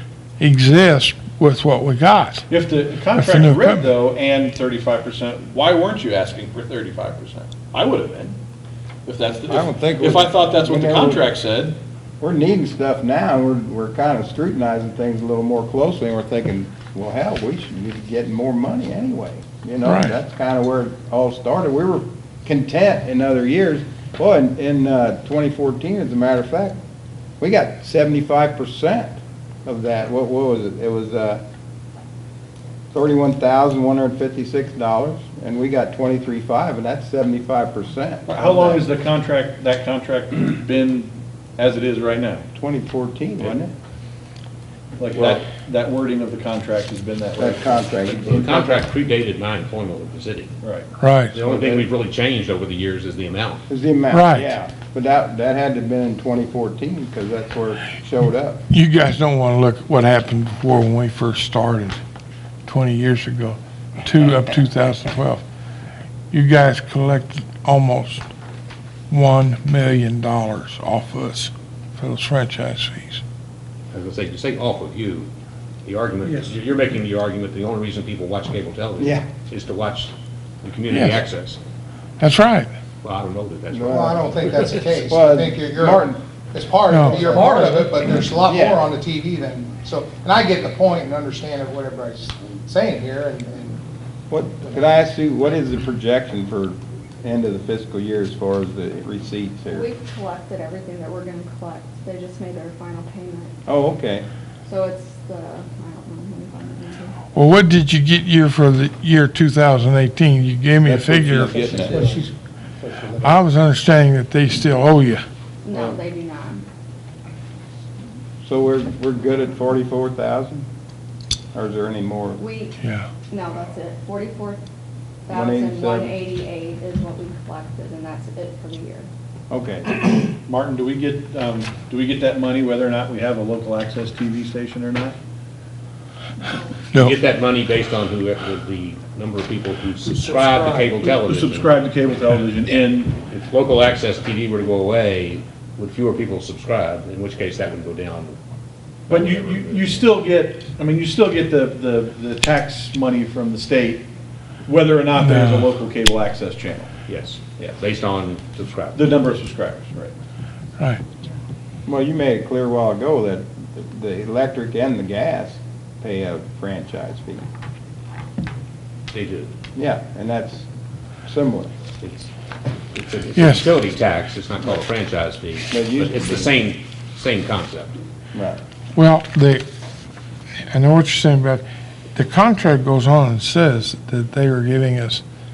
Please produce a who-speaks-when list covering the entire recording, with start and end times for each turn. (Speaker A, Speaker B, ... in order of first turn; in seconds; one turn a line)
Speaker A: 0.4-2.5
Speaker B: 2.5-8.4
Speaker A: 3.1-3.8
Speaker B: 9.0-11.8
Speaker C: 9.5-11.3
Speaker C: 12.2-26.8
Speaker A: 19.9-20.1
Speaker C: 27.4-31.4
Speaker C: 32.9-38.8
Speaker B: 38.3-42.4
Speaker C: 42.5-43.7
Speaker B: 45.0-48.4
Speaker C: 47.4-48.8
Speaker D: 48.2-50.5
Speaker A: 51.0-51.4
Speaker D: 51.3-53.6
Speaker C: 51.4-51.8
Speaker C: 53.7-58.6
Speaker A: 54.1-54.5
Speaker A: 58.7-62.0
Speaker A: 62.6-65.4
Speaker A: 66.3-68.3
Speaker A: 69.1-73.2
Speaker D: 73.9-75.3
Speaker D: 75.8-81.6
Speaker C: 79.0-79.3
Speaker A: 80.9-81.2
Speaker A: 82.2-82.7
Speaker D: 83.0-85.0
Speaker C: 83.7-84.2
Speaker E: 83.9-93.8
Speaker C: 85.0-86.2
Speaker A: 86.9-87.2
Speaker C: 88.4-88.8
Speaker C: 94.3-99.8
Speaker E: 94.7-94.9
Speaker F: 99.7-103.5
Speaker C: 103.7-104.3
Speaker F: 104.7-107.2
Speaker A: 107.3-111.8
Speaker C: 110.9-111.9
Speaker B: 110.9-112.2
Speaker A: 113.2-115.2
Speaker F: 115.6-116.6
Speaker C: 118.4-120.7
Speaker C: 121.5-122.4
Speaker F: 122.4-124.6
Speaker A: 122.8-123.1
Speaker F: 125.3-129.1
Speaker C: 125.3-126.1
Speaker C: 129.5-130.0
Speaker B: 130.4-135.2
Speaker D: 136.9-141.8
Speaker B: 140.4-143.2
Speaker D: 143.2-148.4
Speaker D: 149.1-150.0
Speaker B: 149.1-154.1
Speaker B: 154.6-156.9
Speaker A: 155.2-155.7
Speaker D: 157.1-159.1
Speaker B: 158.9-160.1
Speaker C: 161.8-167.4
Speaker D: 169.1-169.5
Speaker C: 169.7-170.7
Speaker C: 171.2-171.7
Speaker D: 172.0-172.3
Speaker D: 172.9-177.9
Speaker A: 173.3-173.7
Speaker C: 175.7-176.5
Speaker C: 178.3-178.6
Speaker A: 178.9-179.6
Speaker A: 180.7-185.2